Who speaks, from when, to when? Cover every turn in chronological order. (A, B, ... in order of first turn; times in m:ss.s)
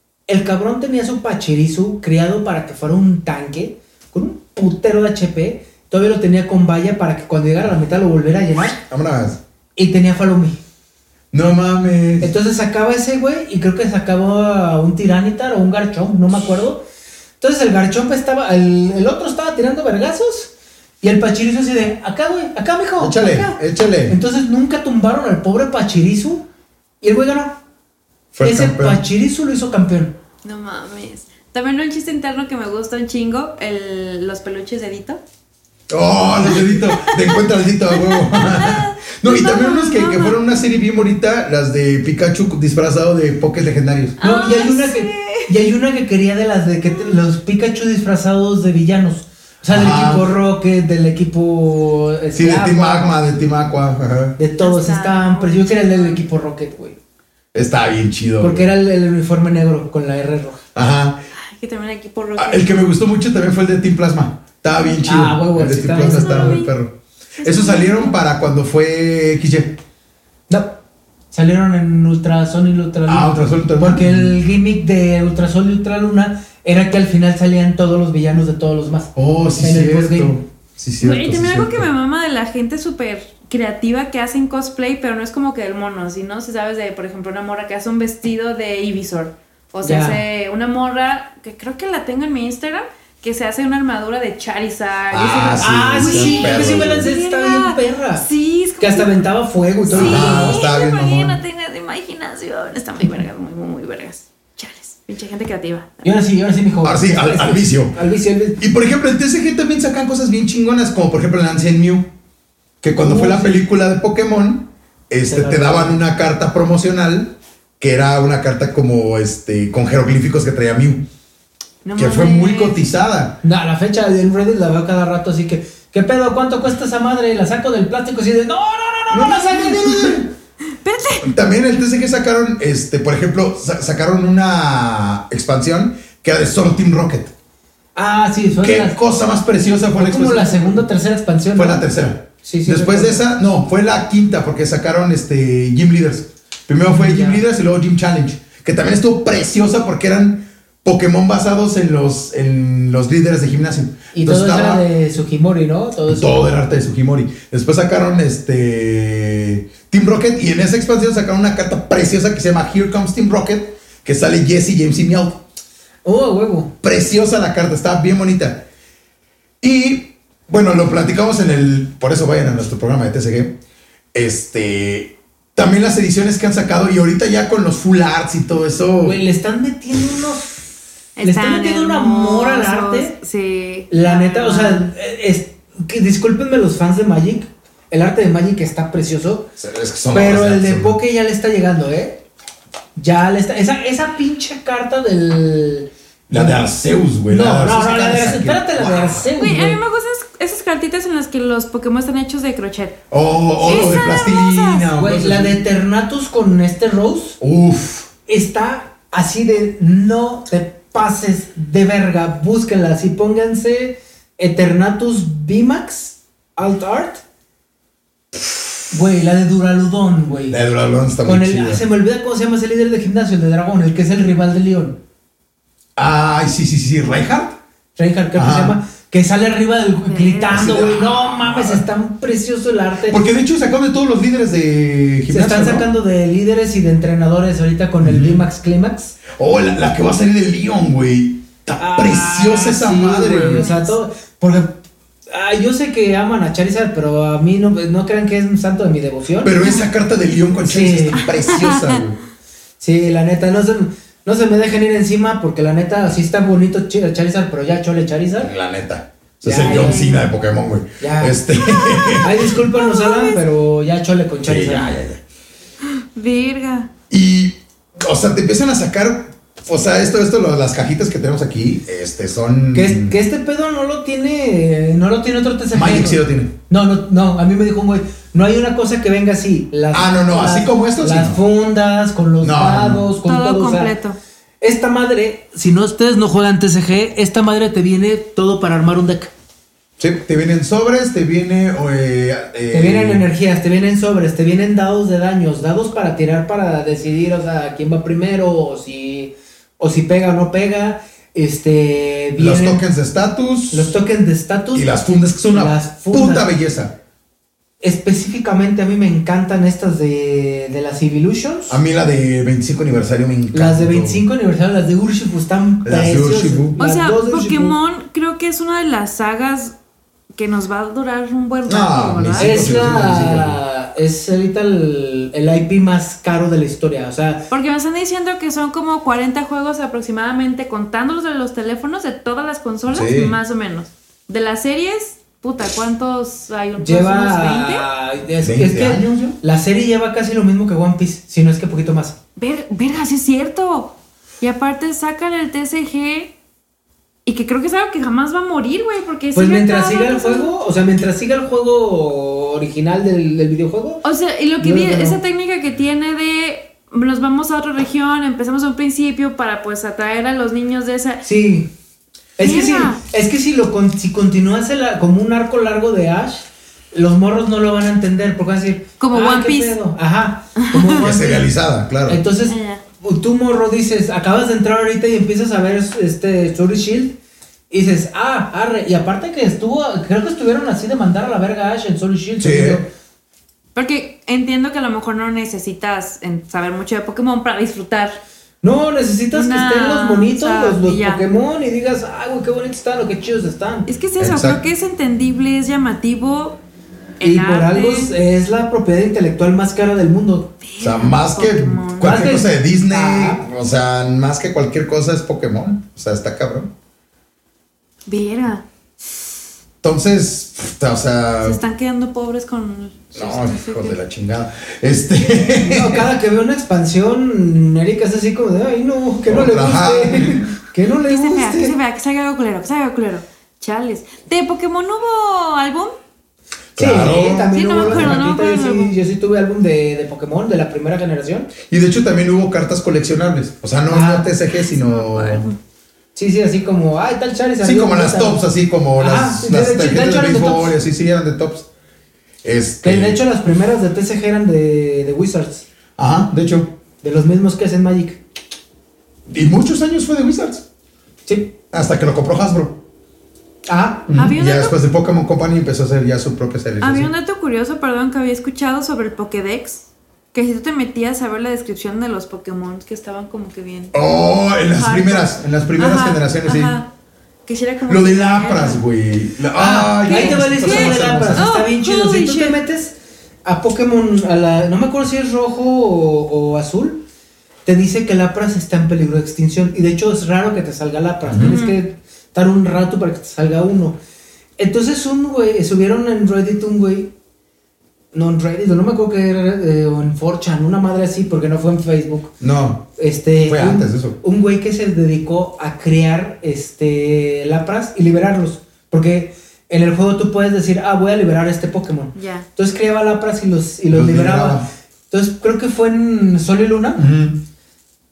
0:00.3-0:08.8 A
0:08.9-0:09.4 B
0:09.8-0:10.6 A
0:11.3-0:12.3 B
0:12.2-0:16.8 A
0:17.4-0:26.4 A
0:23.0-0:24.2 B
0:27.0-0:27.6 A
0:28.3-0:29.0 B
0:28.4-0:30.1 A
0:30.4-0:35.2 C
0:35.9-0:44.2 B
0:36.6-0:40.4 C
0:44.2-0:45.6 C
0:44.2-0:53.2 A
0:49.7-0:50.3 B
0:52.3-0:54.4 B
0:54.4-0:57.0 A
0:54.6-0:56.2 C
0:57.5-0:58.7 B
0:58.4-1:00.6 A
1:00.7-1:01.2 B
1:01.3-1:02.9 C
1:02.4-1:09.8 B
1:05.0-1:06.6 A
1:06.0-1:06.7 C
1:07.4-1:08.2 C
1:10.5-1:10.8 A
1:11.3-1:20.4 A
1:13.1-1:14.3 B
1:19.2-1:21.9 B
1:21.0-1:39.3 C
1:29.8-1:30.2 A
1:35.1-1:37.1 B
1:35.6-1:38.2 A
1:38.8-1:40.6 A
1:39.8-1:46.2 C
1:39.9-1:41.4 B
1:46.0-1:48.6 A
1:46.8-1:48.0 B
1:48.6-1:52.1 B
1:52.8-2:01.0 B
1:52.9-1:53.6 A
1:55.2-1:56.0 A
2:01.8-2:02.8 C
2:01.9-2:03.4 B
2:03.4-2:10.0 A
2:09.1-2:10.3 B
2:10.8-2:11.3 C
2:11.2-2:17.3 B
2:17.9-2:19.0 A
2:18.6-2:20.8 B
2:20.0-2:21.9 A
2:21.5-2:34.8 B
2:22.4-2:23.2 A
2:26.8-2:27.4 A
2:34.1-2:36.4 A
2:36.1-2:45.4 B
2:46.0-2:46.7 A
2:46.8-2:48.6 B
2:49.6-2:53.6 B
2:54.1-2:59.2 B
2:59.0-3:00.6 A
3:01.2-3:04.9 C
3:01.2-3:03.2 A
3:03.9-3:09.5 A
3:09.6-3:11.0 B
3:10.1-3:12.2 A
3:12.9-3:16.6 A
3:16.3-3:19.3 B
3:17.3-3:19.8 A
3:19.4-3:23.0 C
3:23.1-3:25.6 B
3:23.6-3:24.9 C
3:23.6-3:24.0 A
3:25.0-3:27.4 A
3:27.4-3:28.1 B
3:28.3-3:37.2 A
3:38.9-3:40.6 A
3:40.5-3:41.8 B
3:41.2-3:45.0 A
3:46.0-3:47.6 B
3:48.0-3:53.2 A
3:48.3-3:48.8 B
3:50.1-3:50.6 C
3:50.5-3:51.8 B
3:53.1-3:55.9 B
3:55.3-3:59.2 A
3:58.0-3:58.5 B
3:59.3-4:03.7 B
4:01.8-4:09.6 A
4:03.5-4:04.0 C
4:09.4-4:12.2 B
4:10.6-4:11.3 A
4:11.2-4:12.0 C
4:12.8-4:18.5 A
4:18.4-4:22.4 B
4:19.4-4:20.2 A
4:19.7-4:20.0 C
4:21.0-4:21.4 A
4:21.6-4:23.4 C
4:22.2-4:25.0 A
4:24.4-4:25.2 B
4:25.9-4:26.9 C
4:27.1-4:33.2 B
4:32.7-4:43.9 A
4:35.7-4:36.5 B
4:39.9-4:41.4 B
4:42.4-4:43.0 B
4:43.2-4:44.2 C
4:44.6-4:49.3 A
4:50.0-4:53.3 B
4:52.7-5:02.8 A
5:02.4-5:03.9 B
5:03.7-5:06.5 A
5:04.7-5:06.9 B
5:07.8-5:11.8 A
5:11.7-5:14.2 B
5:13.5-5:17.7 A
5:15.8-5:16.8 B
5:16.8-5:19.7 C
5:20.3-5:22.6 C
5:21.6-5:23.6 B
5:22.4-5:27.5 A
5:27.5-5:37.9 C
5:32.9-5:33.3 B
5:36.8-5:42.2 A
5:38.4-5:39.4 B
5:42.4-5:46.3 C
5:47.2-5:50.6 C
5:49.3-5:54.0 A
5:54.0-6:01.2 C
5:54.6-5:55.2 A
6:01.2-6:01.7 A
6:02.4-6:11.5 A
6:02.4-6:03.0 C
6:09.0-6:09.8 C
6:10.6-6:11.1 C
6:11.0-6:12.2 B
6:12.1-6:17.2 A
6:12.4-6:12.8 C
6:17.7-6:22.9 A
6:22.4-6:22.8 B
6:23.7-6:28.2 C
6:28.6-6:33.9 A
6:29.3-6:31.2 C
6:33.9-6:36.6 C
6:34.2-6:34.6 B
6:37.2-6:38.1 C
6:37.2-6:40.5 A
6:40.6-6:42.3 C
6:40.8-6:46.7 B
6:42.0-6:43.4 A
6:48.1-6:48.6 C
6:49.8-6:51.6 B
6:51.4-6:54.0 C
6:53.1-6:56.1 B
6:55.6-7:01.7 A
6:59.3-7:00.5 B
7:00.9-7:06.0 C
7:06.8-7:08.2 B
7:06.8-7:11.5 A
7:07.5-7:08.9 C
7:11.7-7:15.5 B
7:13.9-7:14.3 A
7:14.7-7:15.6 C
7:16.2-7:18.4 A
7:17.6-7:21.7 B
7:19.0-7:20.8 A
7:22.4-7:23.2 B
7:22.8-7:25.7 A
7:26.0-7:26.7 B
7:27.0-7:28.2 A
7:29.3-7:30.6 B
7:31.2-7:31.5 A
7:31.7-7:32.8 B
7:33.7-7:34.2 A
7:34.1-7:37.1 B
7:34.1-7:34.8 C
7:36.8-7:43.9 C
7:43.9-7:46.8 B
7:44.7-7:46.9 C
7:47.4-7:48.8 C
7:47.9-7:51.4 B
7:49.6-7:57.0 A
7:50.0-7:52.6 C
7:57.6-8:04.0 A
8:01.3-8:01.5 B
8:01.4-8:01.8 C
8:04.6-8:07.1 A
8:08.1-8:12.4 A
8:12.4-8:12.9 B
8:13.0-8:27.0 A
8:13.4-8:14.2 B
8:22.1-8:22.5 C
8:23.9-8:24.6 B
8:27.0-8:27.4 B